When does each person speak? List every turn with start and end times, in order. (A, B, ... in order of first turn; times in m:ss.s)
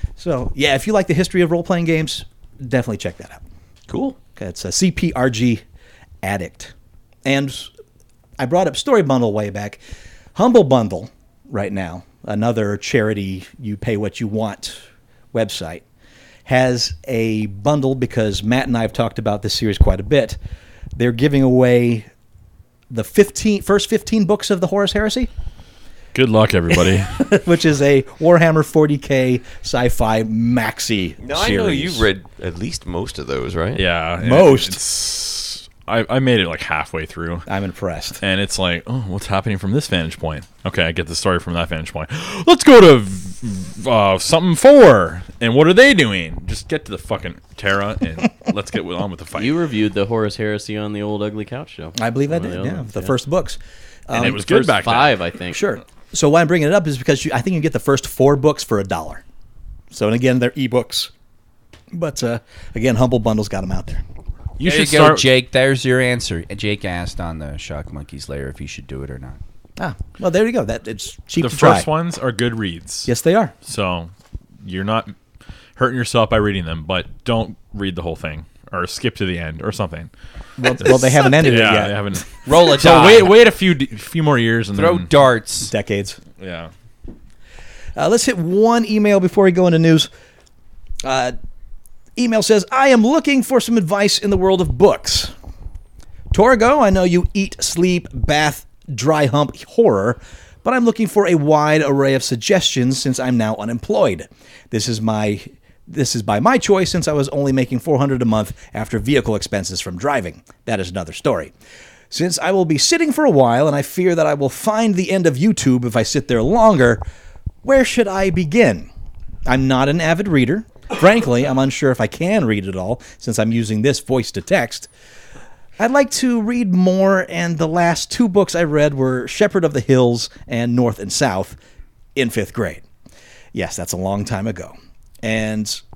0:00.2-0:03.4 A
0:04.3-0:05.6 A
0:06.2-0:06.7 A
0:07.2-0:07.7 A
0:08.4-0:09.8 A
0:10.3-0:14.8 A
0:15.3-0:15.8 A
0:16.4-0:20.4 A
0:21.0-0:22.1 A
0:22.9-0:25.3 A
0:26.1-0:27.3 B
0:26.7-0:32.1 A
0:31.2-0:33.8 C
0:33.8-0:37.4 B
0:34.2-0:34.8 A
0:37.5-0:38.2 A
0:38.2-0:49.5 B
0:49.3-0:53.1 D
0:52.0-0:54.6 A
0:54.1-0:55.2 B
0:54.4-0:55.6 D
0:55.5-0:59.2 A
0:59.9-1:01.1 A
1:01.9-1:04.0 A
1:04.6-1:05.3 B
1:04.6-1:09.4 E
1:09.8-1:11.9 A
1:11.4-1:13.1 B
1:13.0-1:13.5 A
1:13.6-1:14.1 B
1:14.6-1:15.1 B
1:15.8-1:20.1 B
1:20.6-1:22.2 A
1:20.7-1:25.1 B
1:22.4-1:23.4 E
1:24.7-1:25.7 E
1:25.7-1:26.2 A
1:26.4-1:26.7 B
1:28.0-1:30.1 A
1:31.0-1:31.3 A
1:32.2-1:35.3 A
1:36.3-1:51.5 A
1:52.1-1:57.0 A
1:57.6-1:58.9 A
1:59.4-2:04.9 A
2:05.8-2:11.6 A
2:12.1-2:12.8 A
2:13.5-2:15.8 A